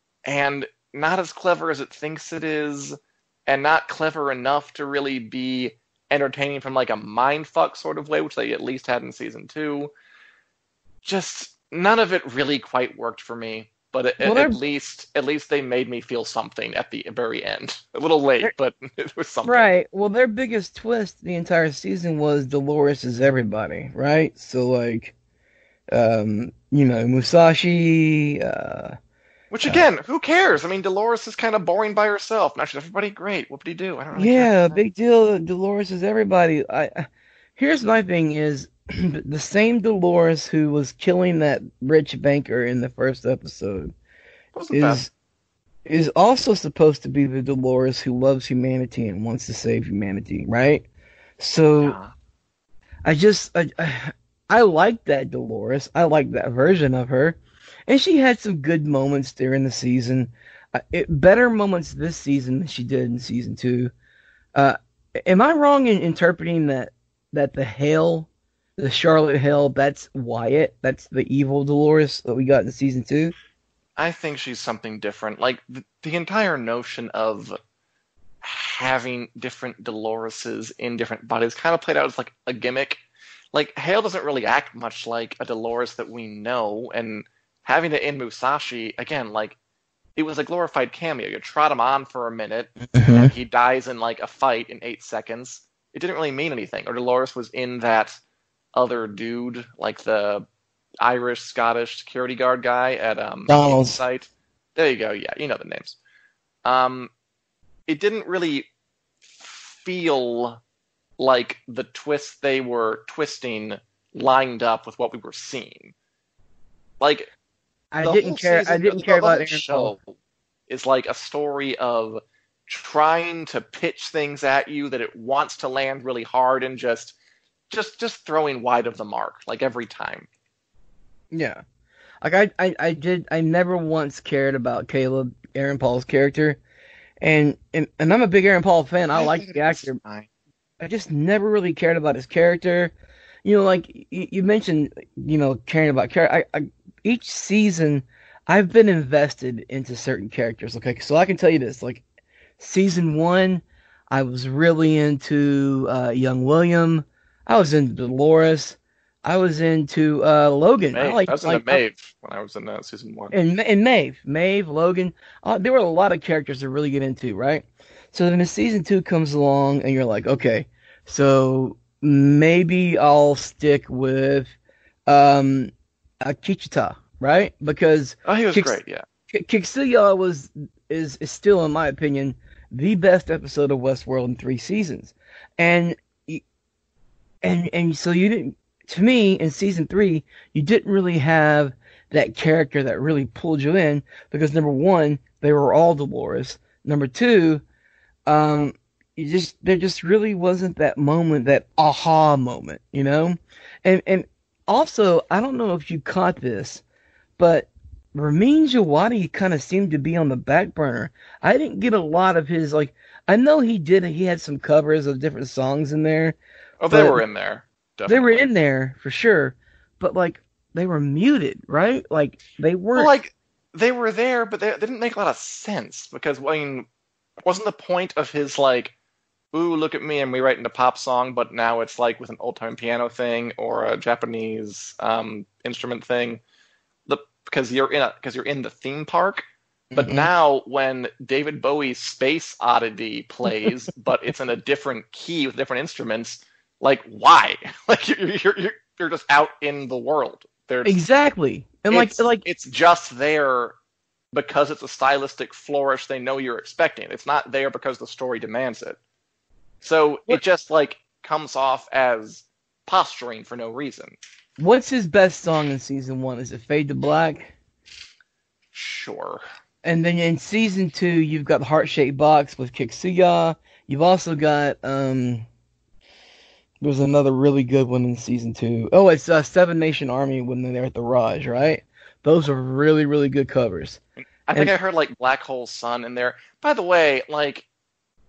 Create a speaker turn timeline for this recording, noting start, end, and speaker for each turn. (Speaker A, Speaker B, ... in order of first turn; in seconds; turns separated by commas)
Speaker A: 0.3-9.9, Speaker A: 11.0-19.7, Speaker B: 14.2-14.6, Speaker B: 19.4-25.1, Speaker B: 25.9-29.0, Speaker A: 29.5-34.7, Speaker B: 34.1-43.9, Speaker A: 44.5-45.1, Speaker B: 44.7-45.1, Speaker B: 45.9-50.9, Speaker B: 51.4-52.0, Speaker A: 51.8-52.1, Speaker B: 53.0-63.9, Speaker B: 64.5-73.3, Speaker A: 74.0-77.6, Speaker A: 78.4-83.0, Speaker A: 83.5-89.6, Speaker A: 90.2-98.2, Speaker B: 92.9-93.3, Speaker A: 98.7-100.5, Speaker A: 101.0-106.0, Speaker B: 103.5-104.0, Speaker A: 106.7-107.1, Speaker A: 107.9-108.7, Speaker A: 109.2-110.6, Speaker A: 111.2-115.9, Speaker A: 117.0-117.3, Speaker B: 117.9-119.9, Speaker A: 118.0-120.2, Speaker A: 120.7-127.2, Speaker A: 127.7-130.3, Speaker B: 131.3-131.6, Speaker B: 132.2-136.6, Speaker B: 137.2-140.0, Speaker A: 139.1-140.3, Speaker B: 140.8-142.9, Speaker B: 143.4-152.0, Speaker B: 152.6-161.8, Speaker A: 160.9-163.3, Speaker B: 163.3-174.5, Speaker B: 175.1-178.8, Speaker A: 178.3-179.1, Speaker B: 179.3-186.4, Speaker B: 187.4-197.6, Speaker B: 198.3-206.8, Speaker B: 207.4-216.4, Speaker A: 216.8-218.5, Speaker B: 216.9-217.2, Speaker B: 218.1-223.1, Speaker A: 222.9-226.9, Speaker A: 227.4-228.9, Speaker A: 229.5-236.4, Speaker A: 237.1-239.5, Speaker B: 239.9-240.3, Speaker A: 240.0-251.0, Speaker B: 250.8-252.4, Speaker A: 251.9-253.8, Speaker A: 254.3-259.0, Speaker A: 259.8-264.2, Speaker B: 264.6-267.5, Speaker A: 268.7-269.4, Speaker B: 269.8-275.5, Speaker B: 276.8-284.0, Speaker A: 284.2-287.7